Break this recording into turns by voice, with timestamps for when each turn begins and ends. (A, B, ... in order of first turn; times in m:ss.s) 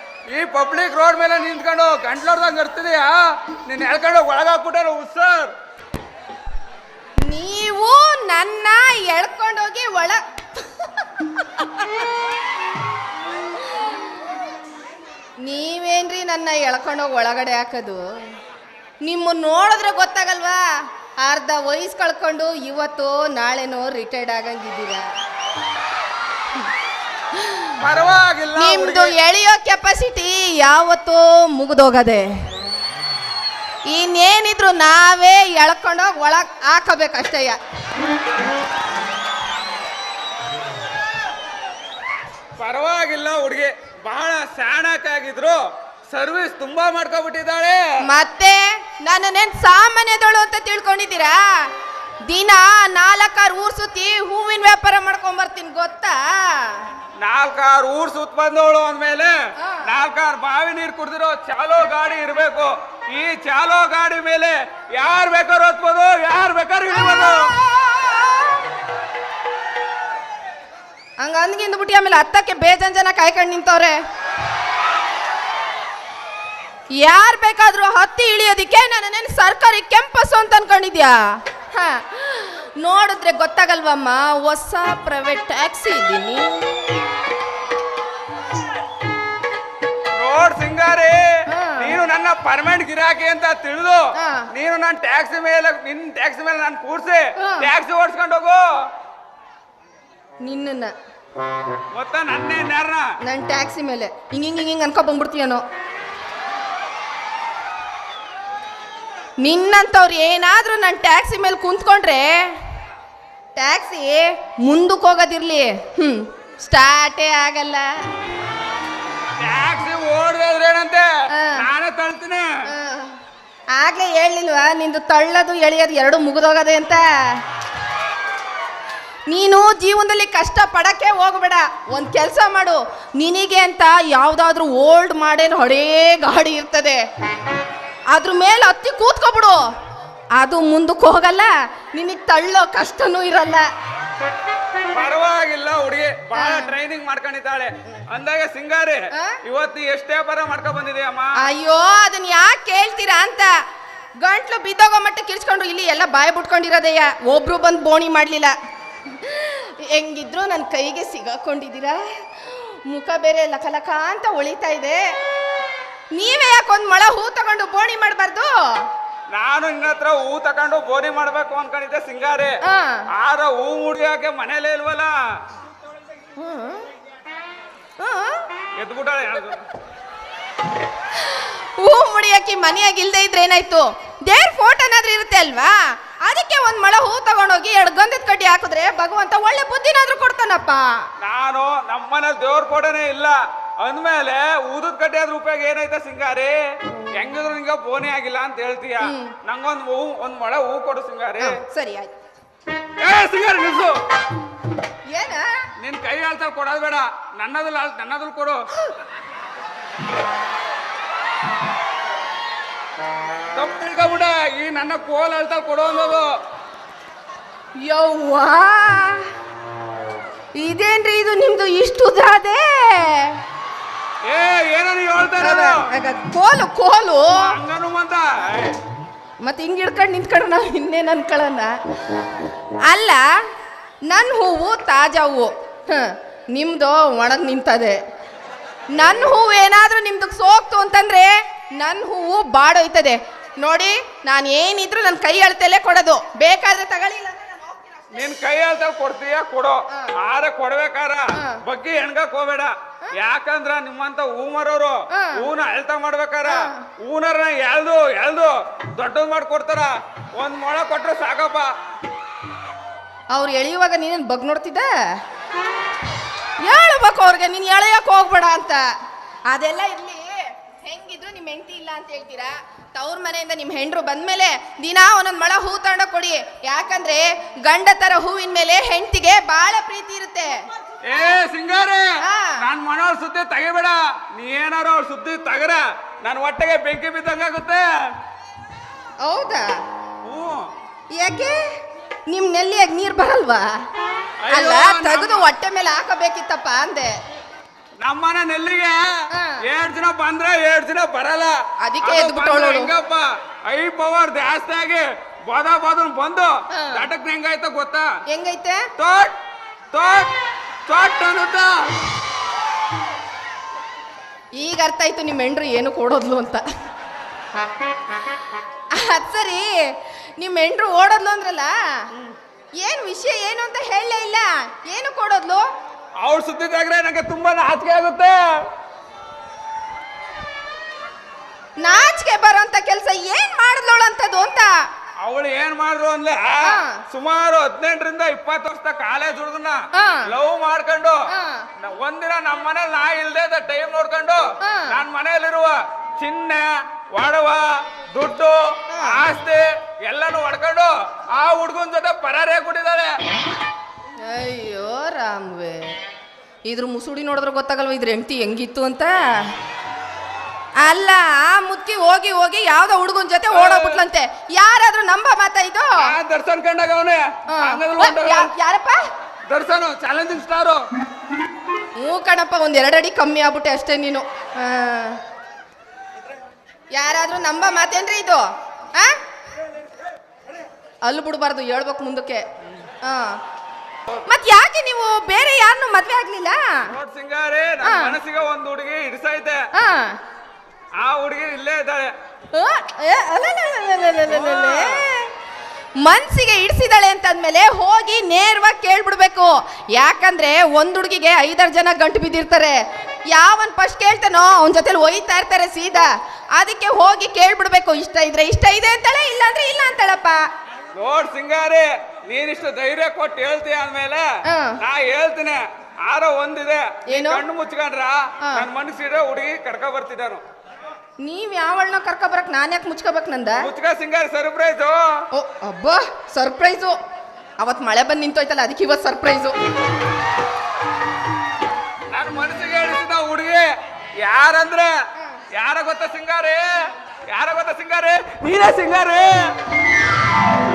0:00.3-0:05.5 A
0:07.2-0:12.2 B
0:13.6-0:14.1 B
0:15.4-0:18.3 B
0:19.0-0:20.7 B
0:21.2-0:25.1 B
0:27.3-0:27.8 B
0:27.7-0:29.1 A
0:28.6-0:32.3 B
0:33.8-0:37.6 B
0:42.6-0:47.8 A
0:48.1-0:51.7 B
0:52.3-0:56.9 B
0:57.2-1:07.5 A
1:06.9-1:08.8 B
1:11.2-1:14.0 B
1:17.0-1:27.1 B
1:30.1-1:38.7 A
1:31.5-1:32.0 B
1:34.2-1:34.5 B
1:37.4-1:37.7 B
1:40.4-1:40.9 B
1:41.9-1:43.1 A
1:43.2-1:45.6 B
1:49.4-1:52.6 B
1:53.6-1:58.0 B
1:59.4-2:02.5 A
2:01.3-2:01.7 B
2:02.7-2:03.2 B
2:03.7-2:07.4 B
2:09.3-2:17.0 B
2:18.1-2:19.6 B
2:20.3-2:23.7 B
2:24.9-2:31.4 A
2:26.3-2:26.8 B
2:29.1-2:29.4 B
2:31.4-2:33.6 B
2:34.2-2:45.2 B
2:46.1-2:48.9 B
2:49.3-2:52.6 A
2:52.6-2:53.0 B
2:53.1-2:55.1 A
2:56.4-2:56.9 B
2:58.0-2:58.5 B
2:58.8-2:59.7 A
3:01.1-3:11.1 B
3:11.2-3:16.6 A
3:17.1-3:21.6 A
3:19.0-3:19.4 B
3:21.4-3:22.1 B
3:23.0-3:24.0 A
3:25.1-3:25.7 B
3:25.8-3:28.6 A
3:33.5-3:36.3 A
3:37.8-3:39.3 B
3:40.5-3:43.4 B
3:44.3-3:45.9 A
3:45.4-3:47.5 B
3:47.4-3:48.8 A
3:49.4-3:51.8 B
3:52.8-3:53.4 B
3:54.1-3:58.0 B
3:58.9-4:08.1 B
4:08.1-4:21.7 A
4:11.4-4:11.6 B
4:15.1-4:15.5 B
4:16.4-4:16.9 B
4:23.3-4:25.2 B
4:26.6-4:28.9 B
4:29.5-4:40.7 B
4:41.1-4:47.9 A
4:42.2-4:42.6 B
4:49.2-4:49.8 B
4:50.2-4:50.6 A
4:51.1-4:53.8 B
4:54.4-4:55.4 A
4:54.5-4:57.2 B
4:58.0-5:08.1 A
4:59.3-4:59.6 B
5:01.8-5:02.9 B
5:06.7-5:07.1 B
5:08.3-5:08.9 B
5:09.0-5:09.3 A
5:09.9-5:10.3 A
5:10.9-5:11.9 A
5:14.6-5:16.6 B
5:18.9-5:22.1 B
5:22.8-5:25.7 B
5:26.2-5:28.6 A
5:31.8-5:34.9 B
5:35.2-5:41.2 A
5:36.6-5:37.0 B
5:39.9-5:40.3 B
5:41.3-5:41.7 B
5:41.8-5:53.2 A
5:44.6-5:45.0 B
5:48.9-5:49.2 B
5:54.2-5:56.0 B
5:56.6-5:59.6 B
6:00.8-6:06.2 B
6:03.5-6:04.0 A
6:06.0-6:08.5 A
6:07.5-6:09.0 B
6:09.5-6:10.8 A
6:12.0-6:15.2 B
6:16.9-6:19.2 B
6:21.0-6:22.4 B
6:23.0-6:23.4 B
6:24.2-6:26.9 B
6:26.8-6:29.6 A
6:27.8-6:28.2 B
6:29.7-6:30.2 B
6:31.0-6:32.1 A
6:32.5-6:35.3 B
6:34.2-6:35.0 A
6:36.0-6:50.5 B
6:50.9-6:54.3 A
6:54.5-6:54.8 B
6:54.8-7:00.4 A
6:57.1-6:57.4 B
7:01.2-7:03.7 B
7:03.6-7:05.2 A
7:05.3-7:07.0 B
7:07.6-7:09.6 B
7:12.1-7:13.7 A
7:14.2-7:14.9 A
7:15.2-7:15.4 B
7:15.5-7:16.8 A
7:17.3-7:19.4 A